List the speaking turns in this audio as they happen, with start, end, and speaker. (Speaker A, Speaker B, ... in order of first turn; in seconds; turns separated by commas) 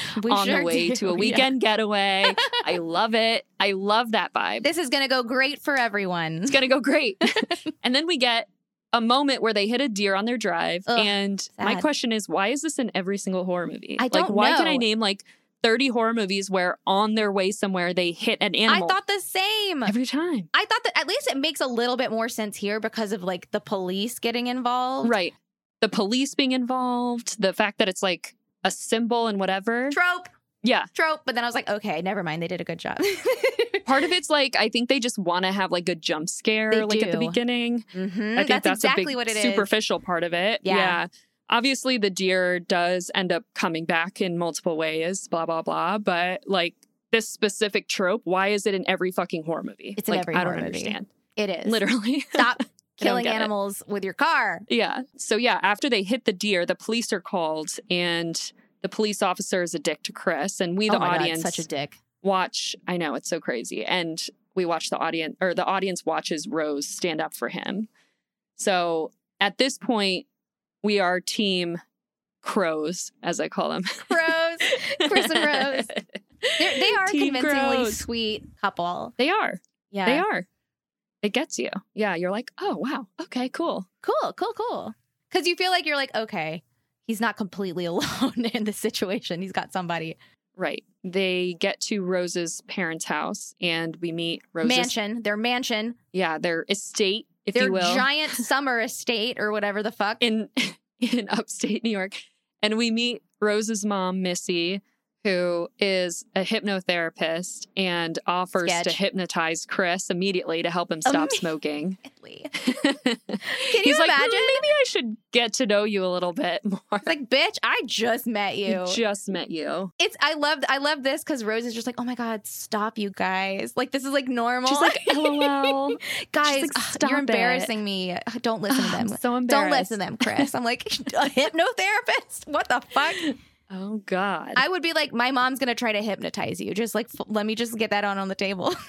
Speaker A: 0.1-1.5, Speaker B: 0.3-4.7, Speaker A: 2.3-2.6, Speaker A: 4.6-6.6, Speaker B: 6.5-19.0, Speaker A: 7.3-7.7, Speaker A: 10.9-11.9, Speaker A: 14.0-14.8, Speaker A: 18.7-19.9, Speaker B: 19.9-20.5, Speaker A: 20.5-25.1, Speaker B: 25.0-30.0, Speaker A: 29.9-30.3, Speaker B: 30.6-30.9, Speaker A: 30.9-33.9, Speaker B: 33.9-51.1, Speaker A: 36.7-37.4, Speaker A: 37.9-39.7, Speaker A: 40.6-41.0, Speaker A: 50.0-54.7, Speaker B: 51.7-53.5, Speaker B: 54.7-61.6, Speaker A: 60.9-62.0, Speaker B: 62.2-67.9, Speaker B: 68.6-70.2, Speaker B: 70.8-71.8, Speaker B: 72.4-78.0, Speaker A: 74.1-75.9, Speaker A: 76.6-79.1, Speaker B: 79.2-80.5, Speaker A: 79.9-80.3, Speaker B: 81.2-83.9, Speaker A: 84.0-90.2, Speaker B: 90.6-94.9, Speaker A: 94.6-96.0, Speaker B: 96.1-98.4, Speaker A: 97.5-100.2, Speaker B: 100.2-112.0, Speaker A: 108.6-109.0, Speaker A: 111.1-111.5, Speaker A: 112.0-112.5, Speaker B: 112.6-117.1, Speaker A: 113.5-114.6, Speaker A: 117.0-119.0, Speaker B: 118.7-119.9, Speaker A: 120.0-133.4, Speaker B: 124.7-127.7, Speaker B: 128.7-130.5, Speaker B: 133.7-134.6, Speaker A: 134.6-138.8